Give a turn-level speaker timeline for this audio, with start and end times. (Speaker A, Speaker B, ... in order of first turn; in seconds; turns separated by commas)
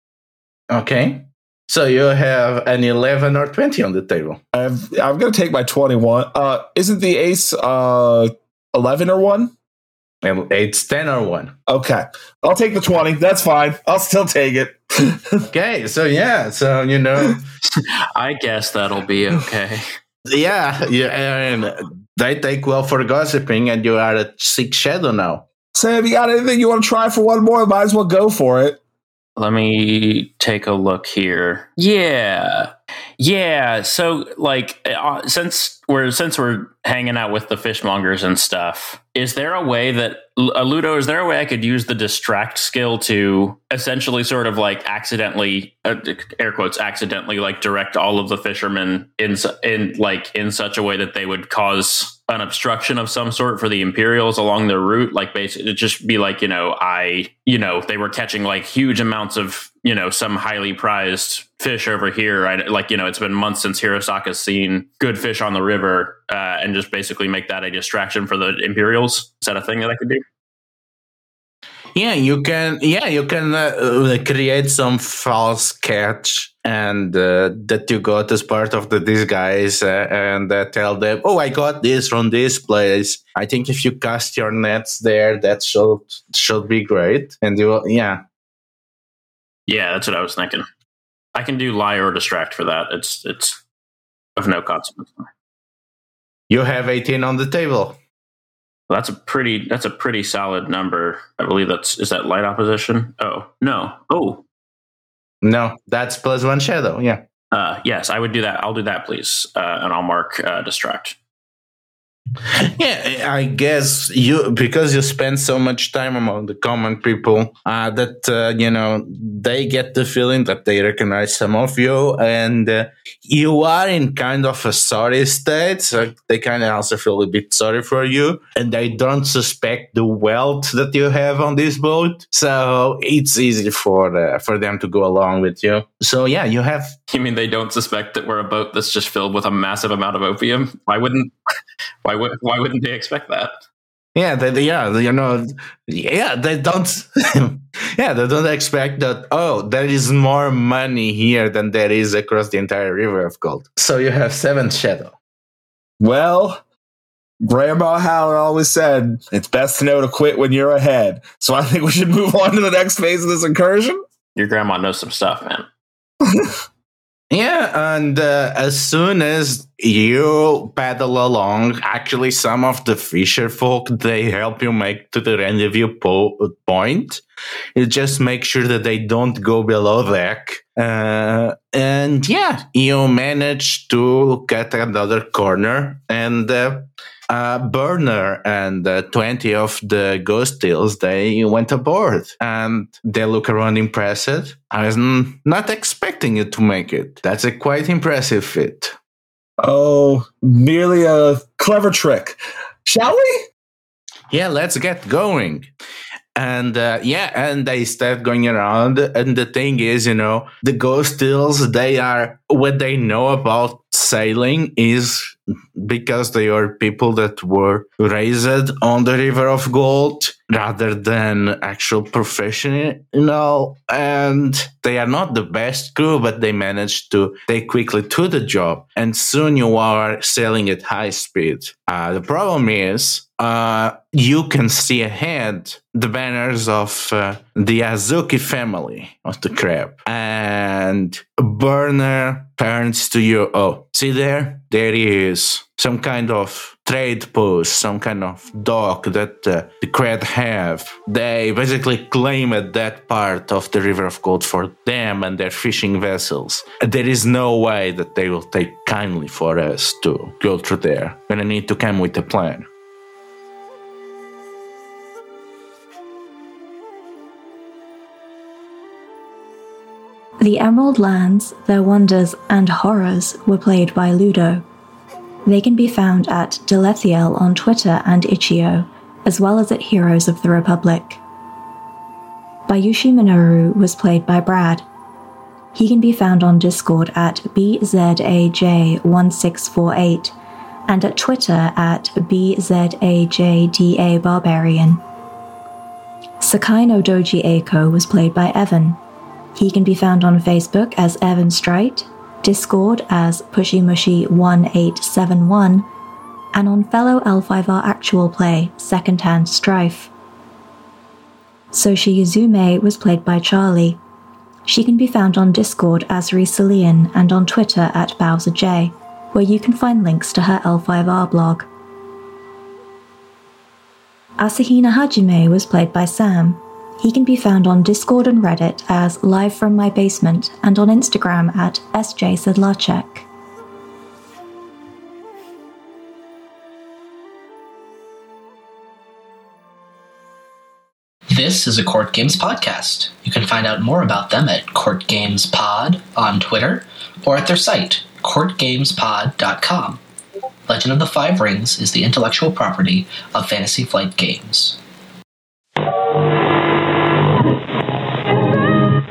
Speaker A: 0.7-4.4, Speaker B: 4.5-9.5, Speaker A: 10.2-11.5, Speaker B: 11.7-15.4, Speaker A: 15.5-17.4, Speaker C: 17.6-19.8, Speaker A: 20.3-25.4, Speaker B: 25.7-28.8, Speaker C: 29.4-70.2, Speaker A: 71.9-88.2, Speaker C: 89.7-90.7, Speaker C: 91.3-93.6, Speaker C: 94.3-95.3, Speaker A: 96.5-98.0, Speaker C: 98.9-104.4, Speaker A: 105.4-107.2, Speaker C: 107.5-111.2, Speaker A: 112.5-137.0, Speaker C: 137.1-141.3, Speaker C: 142.0-143.6, Speaker A: 144.1-155.1, Speaker B: 156.0-156.6, Speaker B: 157.4-164.0, Speaker C: 164.3-165.7, Speaker B: 166.3-166.5, Speaker A: 167.3-177.2, Speaker A: 177.7-198.9, Speaker B: 199.6-203.4, Speaker A: 204.3-205.7, Speaker A: 206.3-262.6, Speaker D: 270.4-274.6, Speaker D: 275.4-281.2, Speaker D: 282.7-284.8, Speaker D: 285.7-290.3, Speaker D: 290.9-295.0, Speaker D: 296.4-299.0, Speaker D: 299.6-305.9, Speaker D: 306.5-310.1, Speaker D: 311.7-314.0, Speaker D: 314.7-321.7, Speaker D: 324.4-333.3, Speaker E: 341.3-350.0, Speaker E: 350.7-354.8